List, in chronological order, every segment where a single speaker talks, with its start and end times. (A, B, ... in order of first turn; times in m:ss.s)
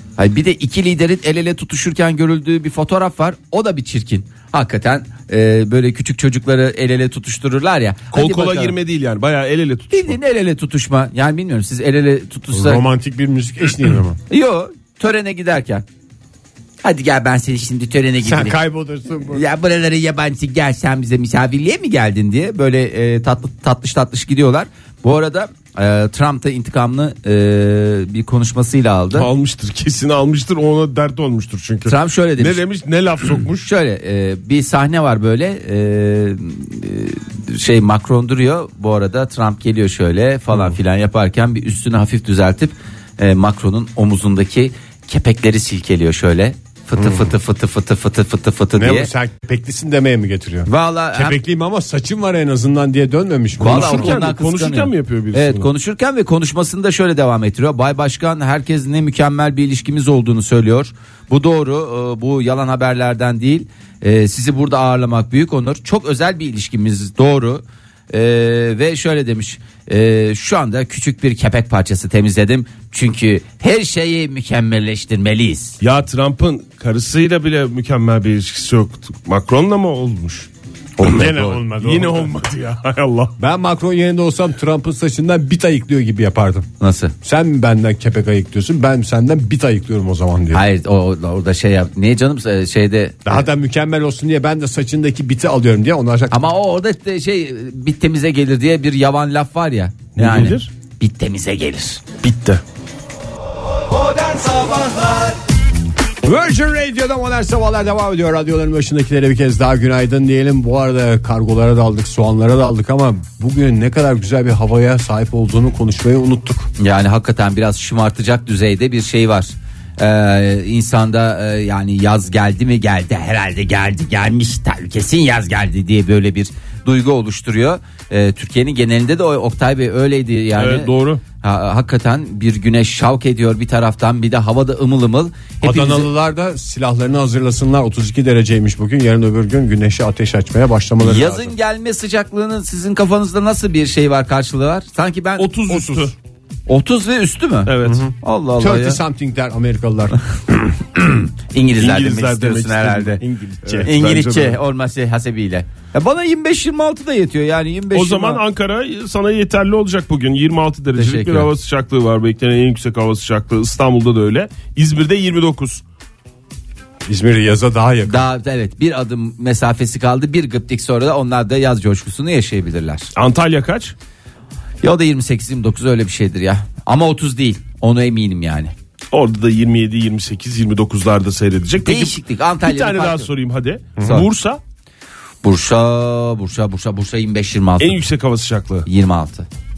0:00.2-0:08.7 A
0:08.1-0:10.2 B
0:09.9-0:12.8 A
0:12.5-0:14.2 C
0:14.3-0:15.8 A
0:16.8-0:18.6 A
0:18.2-0:19.4 C
0:19.3-0:29.3 A
0:29.1-0:33.6 B
0:31.8-0:32.6 A
0:33.5-0:49.1 A
0:47.0-0:47.3 C
0:48.8-0:54.1 C
0:50.7-0:51.4 A
0:53.6-1:15.8 A
0:53.6-0:55.7 B
1:15.8-1:20.5 B
1:21.0-1:22.3 C
1:21.0-1:23.3 B
1:23.4-1:26.7 C
1:26.8-1:27.1 A
1:27.2-1:30.6 C
1:30.5-1:33.4 A
1:33.2-1:36.4 C
1:36.3-1:42.0 A
1:40.2-1:40.7 B
1:42.2-1:42.6 B
1:46.2-1:56.7 C
1:56.8-2:10.9 A
2:10.6-2:11.2 B
2:11.4-2:16.1 A
2:15.6-2:21.5 C
2:21.0-2:26.0 A
2:25.4-2:26.1 B
2:26.7-2:29.0 A
2:27.7-2:28.0 B
2:27.8-2:30.2 C
2:30.9-2:33.2 A
2:31.8-2:34.6 B
2:33.8-2:38.4 A
2:37.9-2:45.8 B
2:41.0-2:41.5 A
2:47.0-2:48.3 C
2:48.0-2:53.1 A
2:53.2-2:53.9 B
2:54.8-2:58.7 A
2:59.1-3:04.6 B
3:01.8-3:03.3 A
3:05.4-3:08.0 A
3:07.8-3:08.8 B
3:08.8-3:09.5 A